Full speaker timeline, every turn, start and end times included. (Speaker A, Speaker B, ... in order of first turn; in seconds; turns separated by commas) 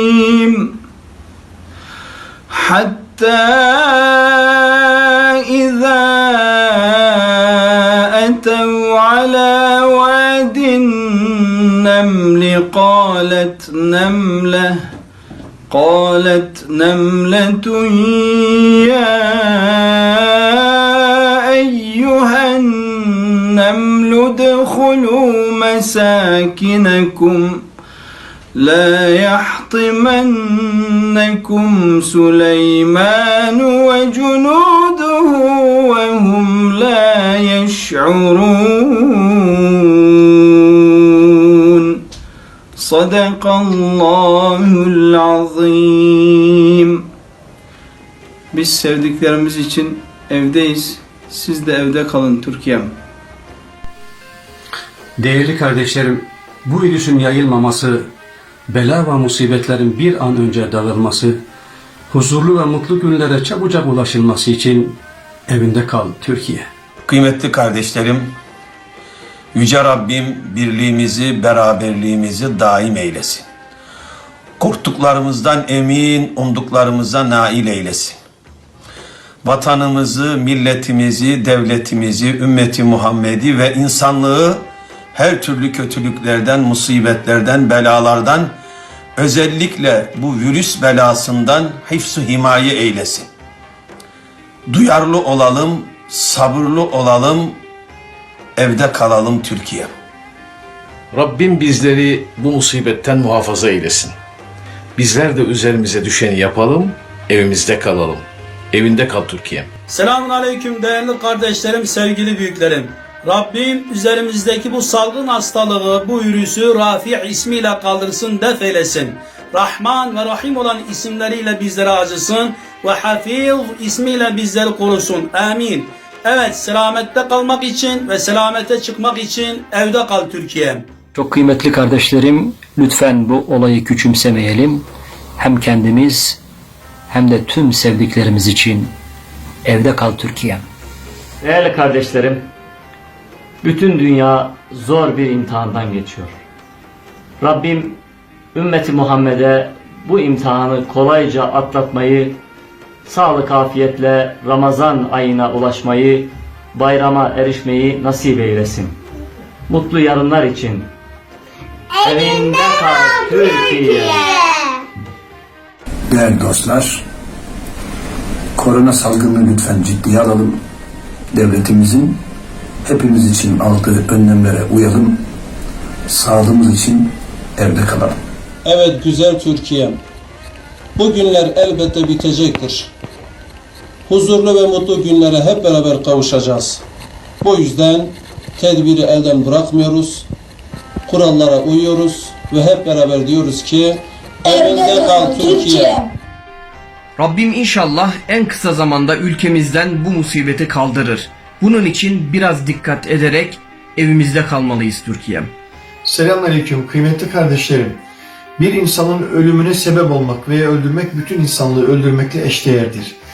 Speaker A: 2.5-14.8, Speaker A: 15.7-27.6, Speaker A: 28.5-40.4, Speaker A: 41.7-42.0, Speaker A: 42.8-47.0, Speaker A: 48.5-52.9, Speaker B: 55.2-58.1, Speaker B: 58.7-61.4, Speaker B: 62.1-66.7, Speaker C: 67.1-68.4, Speaker C: 69.5-73.5, Speaker C: 74.6-78.2, Speaker C: 79.4-88.5, Speaker C: 89.2-93.3, Speaker C: 94.7-97.6, Speaker C: 98.6-99.9, Speaker D: 101.1-104.1, Speaker D: 105.0-109.7, Speaker E: 109.9-130.8, Speaker F: 131.1-134.8, Speaker F: 135.4-136.4, Speaker F: 137.1-138.9, Speaker F: 139.6-140.7, Speaker G: 141.4-142.5, Speaker G: 143.6-146.3, Speaker G: 147.4-148.0, Speaker G: 148.5-152.4, Speaker G: 153.0-159.0, Speaker G: 159.7-160.9, Speaker G: 162.0-164.4, Speaker H: 166.1-167.0, Speaker H: 168.5-170.6, Speaker H: 171.3-172.2, Speaker H: 172.8-175.2, Speaker H: 176.1-178.2, Speaker I: 178.6-180.0, Speaker I: 180.9-182.9, Speaker I: 184.1-186.8, Speaker I: 187.4-190.3, Speaker I: 191.1-196.0, Speaker J: 197.2-205.5, Speaker K: 206.0-208.0, Speaker K: 208.6-213.2